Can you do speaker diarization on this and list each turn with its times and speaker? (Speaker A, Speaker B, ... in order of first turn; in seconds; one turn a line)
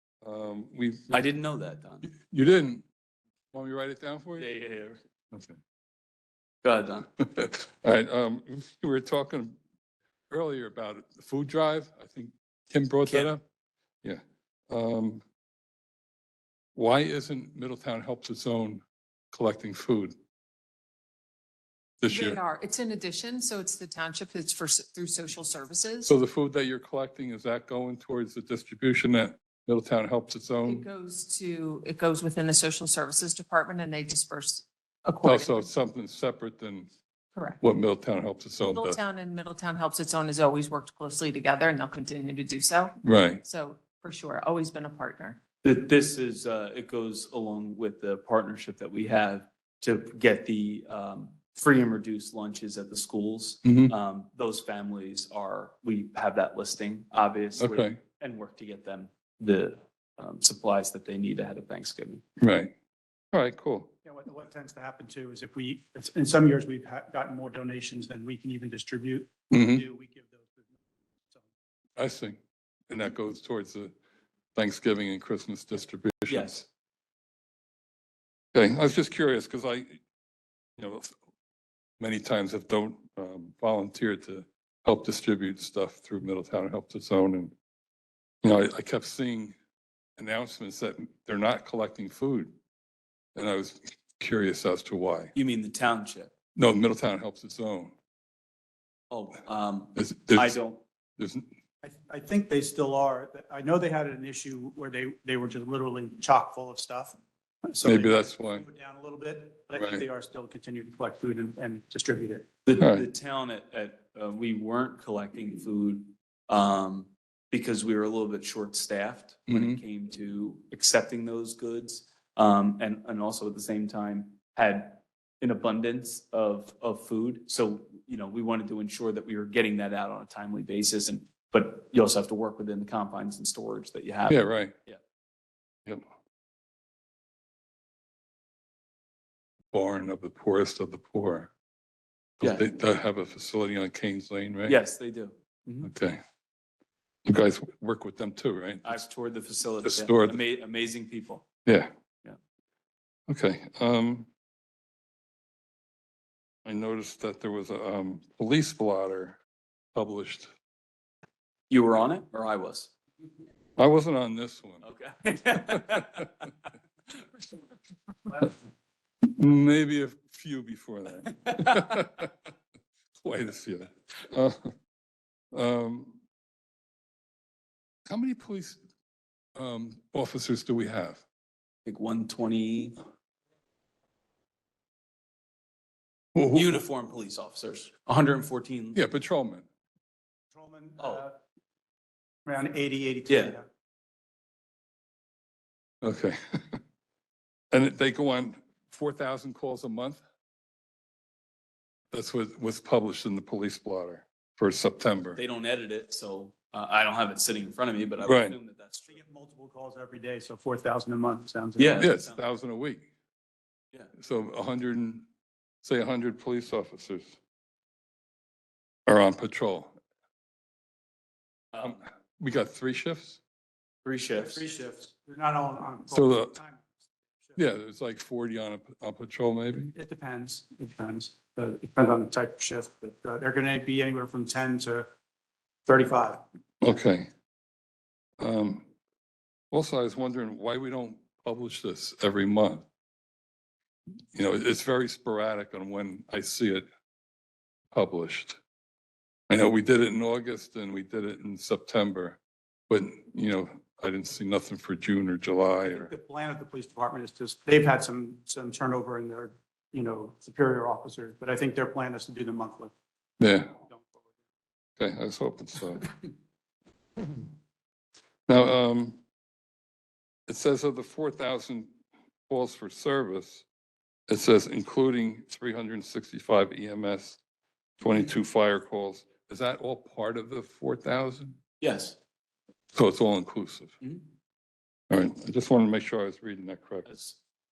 Speaker A: 0.2-1.1
Speaker B: 1.1-2.1
Speaker A: 2.0-2.9
Speaker A: 3.5-4.5
Speaker B: 4.4-5.0
Speaker A: 5.3-5.6
Speaker B: 6.6-7.1
Speaker A: 7.2-9.6
Speaker A: 10.3-13.4
Speaker B: 13.1-13.3
Speaker A: 14.0-15.2
Speaker A: 16.8-20.1
Speaker A: 22.0-22.4
Speaker C: 22.1-26.1
Speaker A: 26.0-30.9
Speaker C: 30.6-35.7
Speaker A: 35.2-36.9
Speaker A: 37.6-39.0
Speaker C: 38.6-45.4
Speaker A: 43.0-43.4
Speaker B: 45.6-62.2
Speaker A: 53.6-53.9
Speaker A: 57.6-58.0
Speaker A: 62.4-62.7
Speaker A: 63.3-63.9
Speaker D: 64.0-70.7
Speaker A: 69.5-69.8
Speaker A: 72.0-73.9
Speaker A: 74.5-76.7
Speaker B: 76.3-76.6
Speaker A: 78.5-80.0
Speaker A: 80.8-81.1
Speaker A: 82.0-87.5
Speaker A: 88.4-89.5
Speaker A: 90.2-92.5
Speaker A: 93.3-95.3
Speaker B: 95.3-96.3
Speaker A: 96.6-98.0
Speaker B: 99.1-100.8
Speaker A: 100.0-100.6
Speaker A: 101.2-101.5
Speaker D: 101.8-112.5
Speaker A: 107.8-108.7
Speaker B: 112.7-135.0
Speaker A: 112.8-113.0
Speaker A: 119.5-119.8
Speaker A: 134.3-134.7
Speaker A: 139.7-141.5
Speaker A: 142.4-144.8
Speaker B: 142.4-142.7
Speaker B: 144.7-145.9
Speaker A: 145.8-146.2
Speaker A: 147.3-149.0
Speaker B: 148.8-151.4
Speaker A: 149.8-150.4
Speaker A: 151.7-151.9
Speaker A: 153.3-154.3
Speaker A: 156.7-159.4
Speaker A: 159.9-160.5
Speaker B: 161.7-162.9
Speaker A: 163.8-164.8
Speaker B: 164.8-166.5
Speaker A: 169.3-172.3
Speaker A: 173.2-174.7
Speaker A: 175.5-176.2
Speaker A: 178.1-178.8
Speaker A: 179.6-181.2
Speaker B: 181.9-183.0
Speaker A: 186.3-186.8
Speaker B: 186.5-189.0
Speaker A: 188.9-189.7
Speaker D: 190.5-191.4
Speaker B: 191.0-191.2
Speaker D: 192.5-193.7
Speaker B: 193.3-193.6
Speaker A: 196.0-196.8
Speaker A: 197.7-200.2
Speaker A: 202.1-205.4
Speaker B: 205.3-209.2
Speaker A: 208.2-208.6
Speaker D: 209.1-212.2
Speaker B: 211.8-212.4
Speaker A: 212.0-213.1
Speaker A: 214.2-215.3
Speaker A: 215.8-217.4
Speaker A: 219.1-220.0
Speaker B: 221.7-222.0
Speaker A: 221.8-223.4
Speaker B: 224.0-224.7
Speaker D: 224.4-227.6
Speaker A: 226.1-226.6
Speaker A: 227.6-229.9
Speaker D: 229.9-235.1
Speaker D: 235.9-236.4
Speaker A: 236.8-237.3
Speaker A: 238.4-238.9
Speaker A: 239.7-242.8
Speaker A: 244.3-246.9
Speaker A: 247.9-248.6
Speaker A: 249.5-256.1
Speaker D: 255.9-262.9
Speaker A: 263.4-263.8
Speaker D: 263.9-264.2
Speaker A: 265.0-266.1
Speaker A: 268.5-269.2
Speaker A: 270.5-271.9
Speaker A: 272.5-273.6
Speaker A: 274.3-277.4
Speaker A: 278.0-281.6
Speaker B: 281.8-282.2
Speaker A: 282.9-283.9
Speaker A: 285.1-287.1
Speaker B: 287.1-287.4